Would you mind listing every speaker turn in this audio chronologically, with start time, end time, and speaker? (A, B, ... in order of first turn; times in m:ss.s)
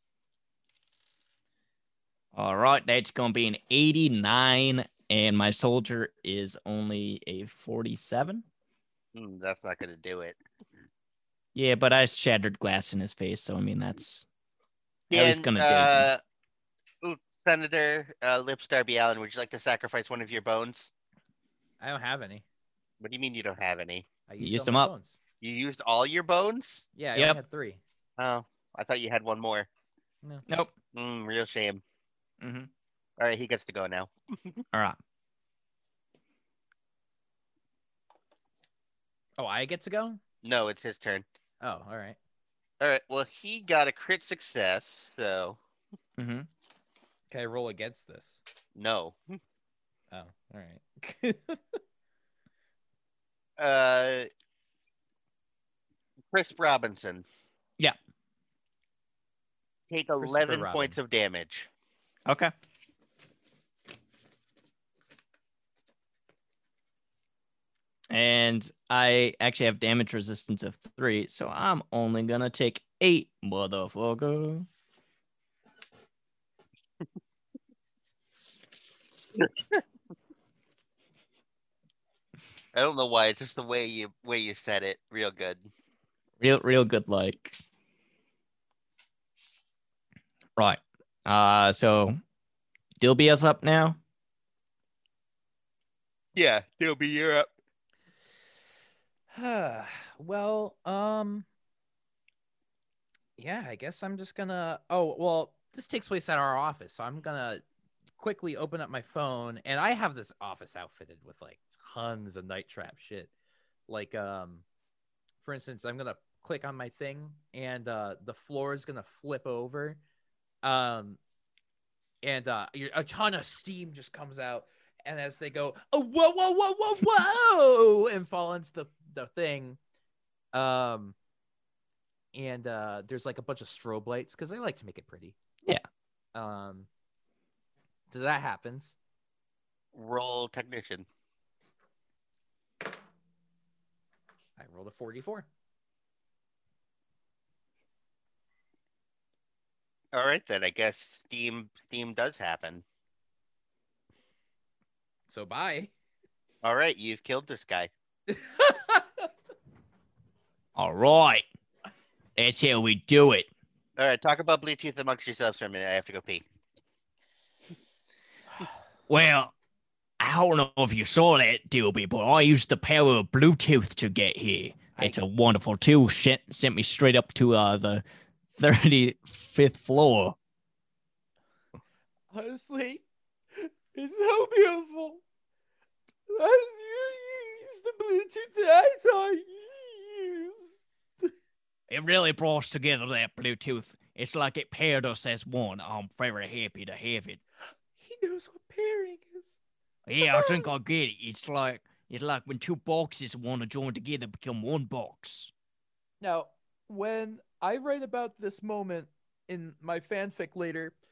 0:02.3-0:08.4 A
0:09.1-0:10.4 B
0:11.6-0:14.3 A
0:15.1-0:16.1 A
0:15.1-0:16.2 B
0:17.0-0:20.9 B
0:21.8-0:22.4 C
0:23.0-0:24.1 B
0:24.3-0:25.2 C
0:24.4-0:24.9 A
0:25.4-0:26.8 B
0:27.0-0:27.8 C
0:28.2-0:29.7 B
0:30.5-0:30.7 A
0:30.9-0:31.8 B
0:32.4-0:32.7 A
0:33.2-0:34.6 B
0:39.4-0:40.2 C
0:40.4-0:41.2 B
0:41.6-0:42.2 C
0:42.8-0:45.6 B
0:46.2-0:46.5 A
0:47.3-0:48.4 C
0:48.8-0:49.4 B
0:50.1-0:51.8 C
0:53.6-0:54.3 B
0:56.3-0:57.2 B
0:59.9-1:01.7 B
1:00.2-1:01.0 C
1:02.3-1:02.5 A
1:08.1-1:14.7 A
1:19.4-1:19.8 B
1:22.7-1:25.7 B
1:26.4-1:27.6 A
1:30.6-1:32.2 A
1:33.0-1:34.0 A
1:36.4-1:37.5 B
1:39.3-1:41.5 C
1:43.4-1:47.6 C
1:48.2-1:53.3 C
1:53.9-1:54.6 C
1:55.4-2:00.0 C
2:00.6-2:01.2 C
2:02.2-2:09.8 C
2:10.5-2:11.2 C
2:12.3-2:15.4 C
2:16.4-2:16.9 C
2:18.1-2:19.0 C
2:19.9-2:21.1 B
2:24.6-2:25.5 C
2:30.1-2:32.8 B
2:35.3-2:35.9 C
2:36.6-2:37.9 B
2:38.3-2:39.3 C
2:40.8-2:41.4 A
2:42.4-2:43.5 A
2:44.0-2:46.4 B
2:49.1-2:49.5 A
2:50.2-2:58.0 A
2:58.6-3:00.4 A
3:02.3-3:05.2 C
3:06.3-3:11.3 C
3:11.9-3:17.4 A
3:18.0-3:19.6 C
3:20.1-3:25.5 A
3:20.2-3:20.7 C
3:26.2-3:31.0 C